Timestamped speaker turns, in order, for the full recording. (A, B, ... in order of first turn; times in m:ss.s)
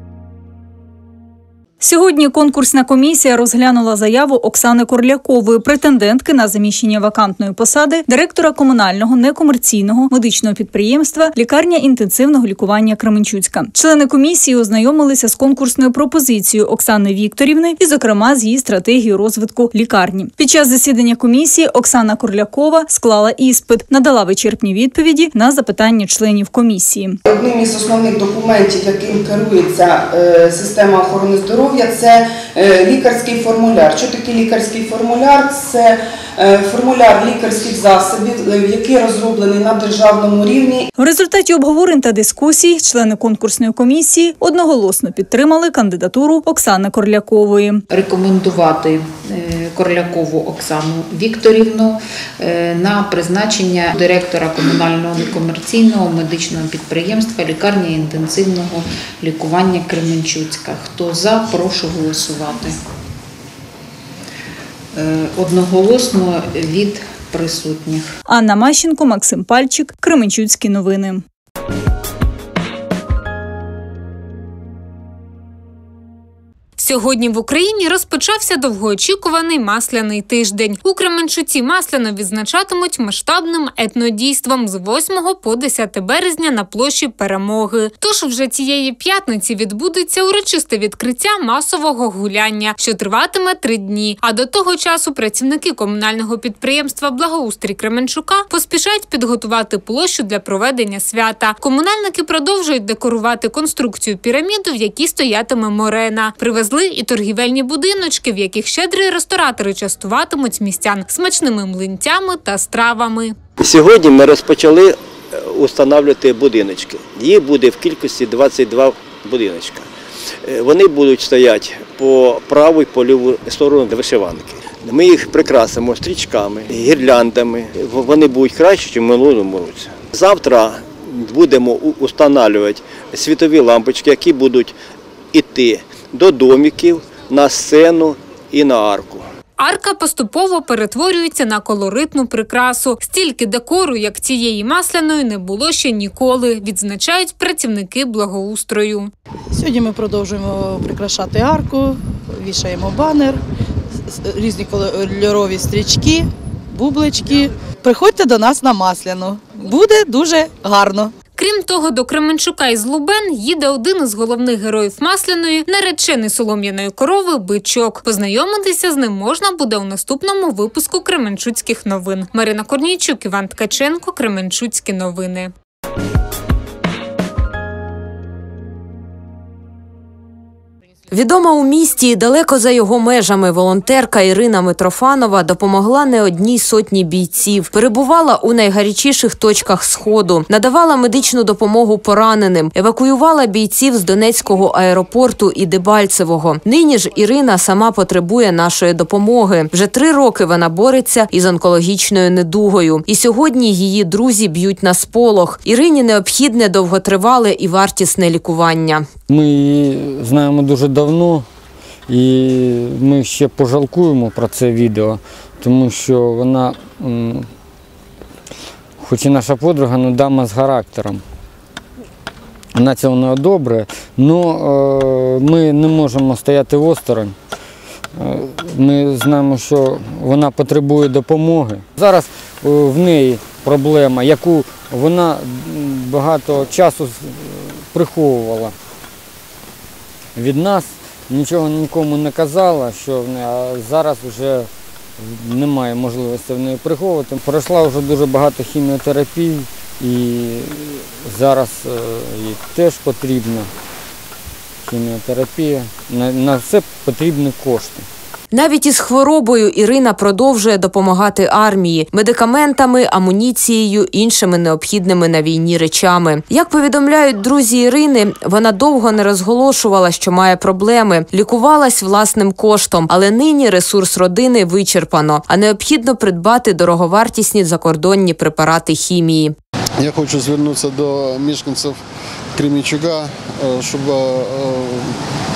0:01.8-0:27.2 A
0:27.3-0:40.9 B
0:41.0-0:47.8 A
0:47.9-1:02.8 C
1:04.9-1:08.2 C
1:08.3-1:11.2 A
1:16.8-1:53.4 D
1:53.6-1:59.9 E
2:00.4-2:14.8 E
2:15.3-2:19.2 E
2:19.6-2:29.1 D
2:29.6-2:33.4 F
2:34.3-2:41.1 F
2:41.4-2:55.5 D
3:01.1-3:29.1 G
3:29.3-3:31.4 H
3:32.1-3:37.5 H
3:39.0-3:41.2 H
3:42.8-3:47.4 H
3:48.2-3:58.7 H
4:00.4-4:13.7 H
4:14.8-4:18.0 H
4:18.5-4:39.6 G
4:40.0-4:42.0 I
4:42.6-4:45.2 I